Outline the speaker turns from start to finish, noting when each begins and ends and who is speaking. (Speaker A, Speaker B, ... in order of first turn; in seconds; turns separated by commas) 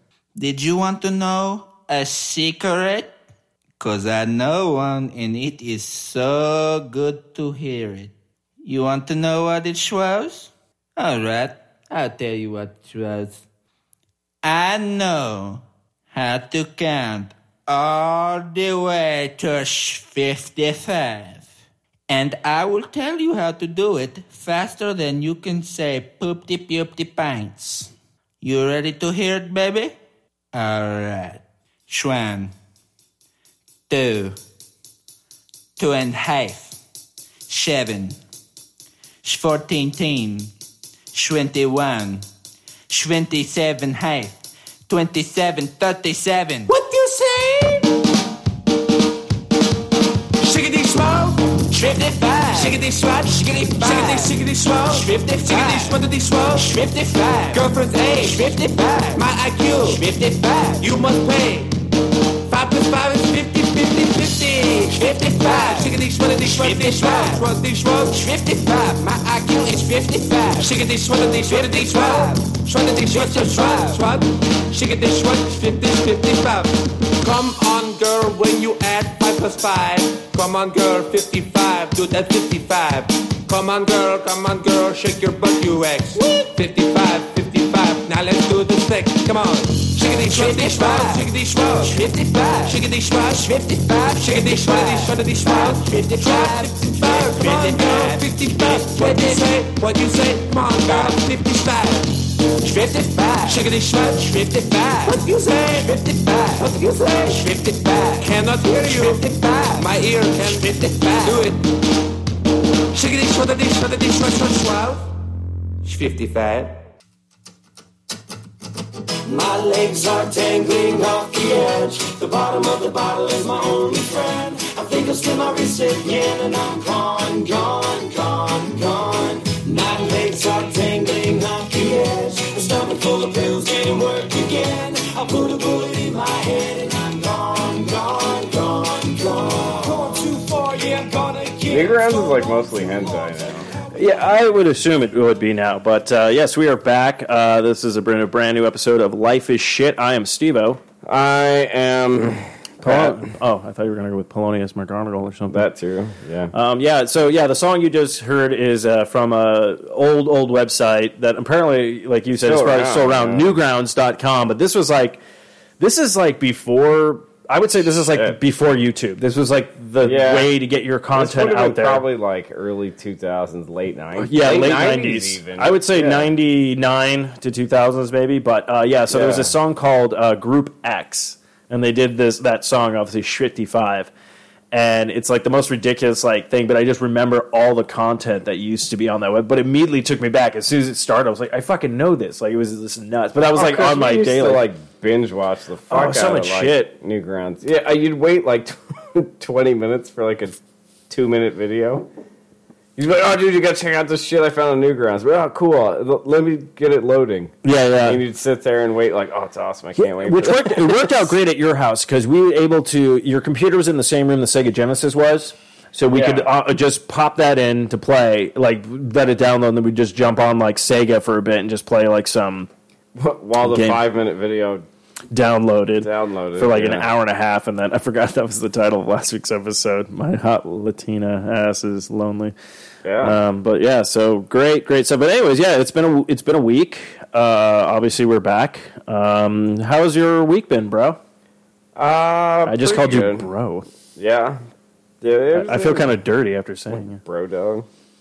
Speaker A: 0.3-3.1, Speaker A: 3.8-8.1, Speaker A: 8.6-13.4, Speaker A: 14.4-21.5, Speaker A: 22.1-29.9, Speaker A: 30.5-32.5, Speaker A: 33.9-34.4, Speaker A: 35.8-36.8, Speaker A: 37.5-38.2, Speaker A: 39.2-40.5, Speaker A: 41.1-42.2, Speaker A: 42.9-44.4, Speaker A: 44.9-46.7, Speaker B: 50.4-51.6, Speaker A: 51.6-52.8, Speaker B: 52.5-56.7, Speaker A: 53.4-54.3, Speaker A: 54.9-56.0, Speaker A: 56.6-57.6, Speaker B: 57.5-58.5, Speaker A: 58.2-60.8, Speaker B: 59.1-60.0, Speaker B: 60.8-61.8, Speaker B: 62.4-68.3, Speaker A: 64.9-67.4, Speaker A: 68.1-70.7, Speaker B: 70.6-92.0, Speaker A: 71.5-72.4, Speaker A: 73.1-74.0, Speaker A: 90.2-91.2, Speaker A: 91.8-92.8, Speaker B: 92.6-93.6, Speaker A: 93.4-99.4, Speaker B: 94.2-102.2, Speaker A: 100.9-101.1, Speaker A: 102.6-103.6, Speaker B: 103.5-106.0, Speaker A: 104.9-105.1, Speaker A: 105.8-108.3, Speaker B: 108.2-111.7, Speaker A: 108.8-109.8, Speaker A: 110.8-111.4, Speaker B: 112.9-115.1, Speaker B: 115.8-116.8, Speaker C: 119.2-144.2, Speaker D: 141.7-143.7, Speaker E: 143.9-150.8, Speaker D: 151.0-153.3, Speaker E: 152.8-155.7, Speaker D: 155.5-156.5, Speaker E: 156.5-165.2, Speaker D: 162.4-163.6, Speaker E: 165.8-172.0, Speaker D: 168.1-168.4, Speaker D: 170.0-170.5, Speaker D: 171.1-176.3, Speaker E: 174.2-184.1, Speaker D: 179.1-179.5, Speaker E: 184.7-194.7, Speaker D: 193.5-200.6, Speaker E: 195.9-196.9, Speaker D: 201.1-202.1, Speaker D: 202.9-211.3, Speaker E: 207.6-208.2, Speaker E: 210.0-222.7, Speaker D: 216.1-216.5, Speaker D: 223.2-224.8, Speaker E: 223.6-224.0, Speaker E: 225.3-232.5, Speaker D: 226.0-227.1, Speaker D: 233.0-233.4, Speaker E: 233.2-241.2, Speaker D: 241.9-243.5, Speaker E: 242.7-243.8, Speaker D: 244.2-244.6, Speaker D: 245.2-246.2, Speaker E: 245.5-247.2, Speaker D: 246.9-247.9